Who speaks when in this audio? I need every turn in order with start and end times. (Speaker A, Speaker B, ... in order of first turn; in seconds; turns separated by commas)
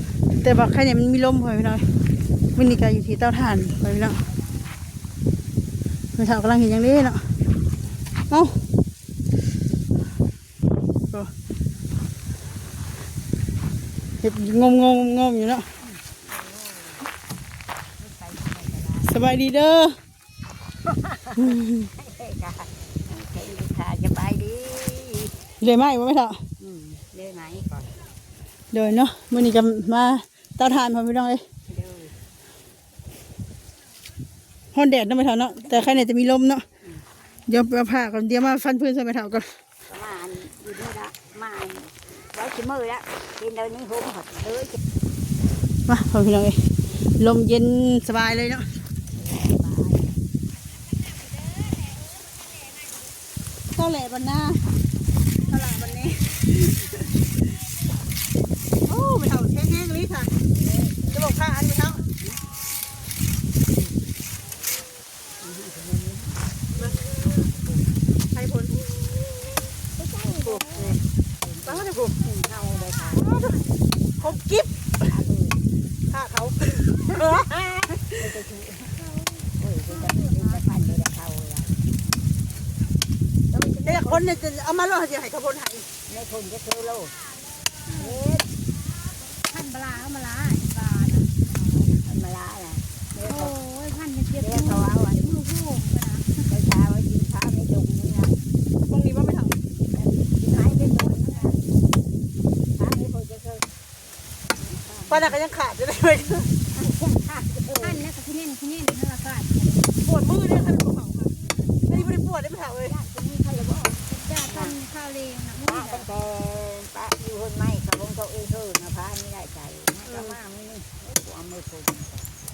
Speaker A: 0.4-1.8, Speaker A: 2.6-4.2, Speaker A: 6.2-7.2, Speaker A: 8.3-8.6, Speaker A: 14.2-15.7, Speaker B: 15.8-17.0, Speaker B: 18.0-19.1, Speaker A: 19.1-20.0, Speaker B: 20.8-25.3, Speaker A: 21.4-21.9, Speaker A: 25.6-26.4, Speaker B: 26.6-27.7, Speaker A: 28.7-31.4, Speaker B: 31.7-32.1, Speaker A: 34.7-36.6, Speaker A: 37.5-39.5, Speaker B: 39.9-44.8, Speaker A: 45.9-48.7, Speaker B: 49.1-50.2, Speaker C: 51.0-53.0, Speaker A: 53.8-54.6, Speaker A: 55.5-57.1, Speaker C: 57.6-58.0, Speaker A: 58.9-60.3, Speaker B: 60.5-61.4, Speaker A: 61.1-62.0, Speaker B: 65.4-66.5, Speaker C: 66.8-67.5, Speaker A: 68.3-68.8, Speaker B: 70.0-73.4, Speaker A: 70.4-71.0, Speaker A: 71.7-72.2, Speaker C: 72.7-73.8, Speaker A: 73.2-73.6, Speaker A: 74.2-75.1, Speaker B: 75.0-75.6, Speaker A: 76.1-78.2, Speaker B: 77.1-77.5, Speaker B: 78.0-78.9, Speaker C: 78.9-80.7, Speaker B: 79.6-81.8, Speaker B: 83.5-84.3, Speaker A: 83.9-85.9, Speaker B: 86.1-87.1, Speaker C: 87.5-88.3, Speaker B: 87.9-88.5, Speaker C: 88.8-91.3, Speaker B: 91.6-93.5, Speaker C: 93.2-96.5, Speaker B: 94.4-95.3, Speaker B: 96.5-98.4, Speaker A: 98.9-99.6, Speaker B: 99.8-101.6, Speaker C: 100.5-101.6, Speaker B: 102.8-103.7, Speaker B: 104.5-105.3, Speaker A: 105.1-106.5, Speaker B: 106.7-108.0, Speaker C: 107.8-109.9, Speaker A: 110.0-111.3, Speaker C: 111.5-111.9, Speaker A: 111.9-112.9, Speaker B: 112.9-114.8, Speaker C: 114.1-116.1, Speaker B: 115.6-122.3, Speaker A: 120.1-120.4